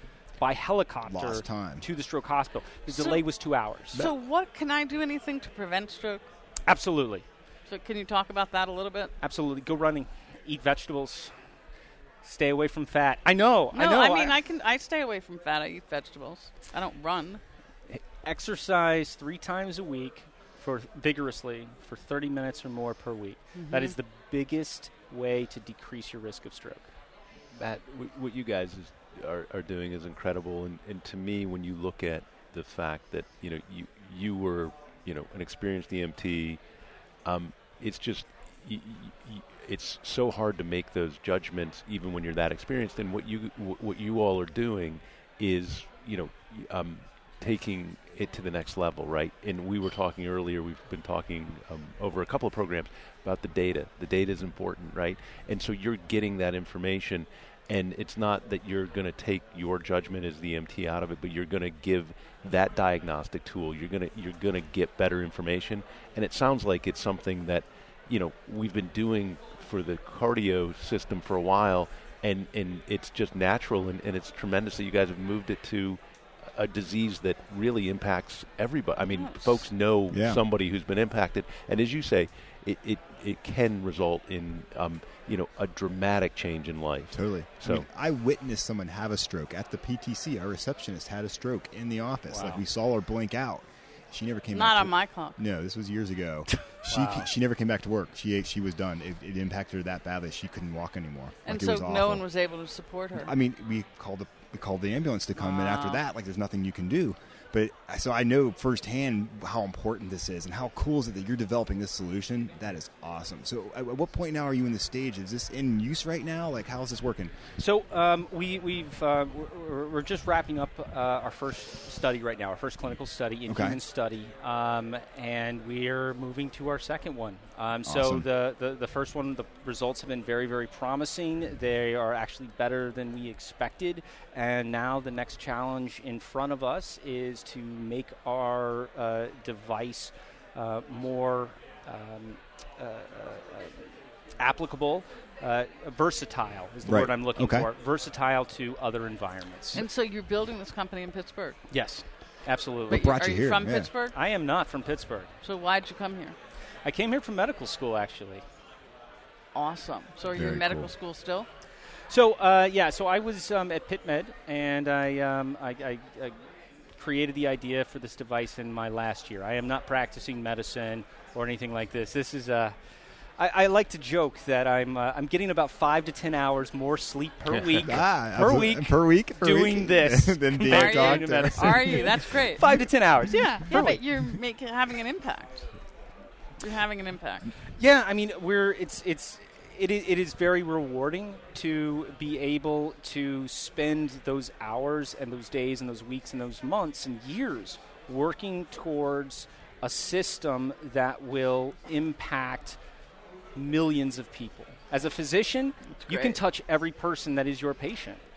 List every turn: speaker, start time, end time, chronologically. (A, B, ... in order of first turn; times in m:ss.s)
0:00.4-0:04.0 A
0:01.0-0:01.9 B
0:02.8-0:03.2 C
0:03.9-0:06.2 C
0:06.7-0:07.2 A
0:07.7-0:09.1 C
0:09.2-0:11.3 A
0:12.2-0:14.4 A
0:13.7-0:17.4 C
0:17.9-0:26.8 A
0:23.6-0:24.0 C
0:27.5-0:36.6 D
0:37.2-1:16.0 D
1:16.5-1:27.8 D
1:19.0-1:19.7 C
1:20.1-1:20.4 B
1:27.1-1:42.3 B
1:32.3-1:32.6 A
1:34.5-1:35.4 C
1:36.9-1:37.3 A
1:41.4-1:43.3 C
1:43.1-1:57.3 B
1:45.3-1:46.0 C
1:57.6-2:23.8 A
2:03.5-2:03.8 B
2:07.8-2:08.3 B
2:24.4-2:29.8 A
2:26.8-2:27.7 B
2:29.7-2:31.6 C
2:31.7-2:33.0 A
2:32.9-2:33.9 B
2:32.9-2:34.2 C
2:34.1-2:35.3 A
2:35.4-2:36.4 C
2:36.8-2:38.4 A
2:39.5-2:41.5 C
2:40.3-2:40.9 B
2:42.1-2:46.4 A
2:47.0-2:52.7 A
2:53.4-3:04.0 A
2:57.4-2:58.0 D
2:57.8-3:02.3 B
3:00.7-3:05.7 C
3:06.6-3:07.5 C
3:07.6-3:22.8 A
3:23.5-3:28.2 A
3:25.8-3:26.4 C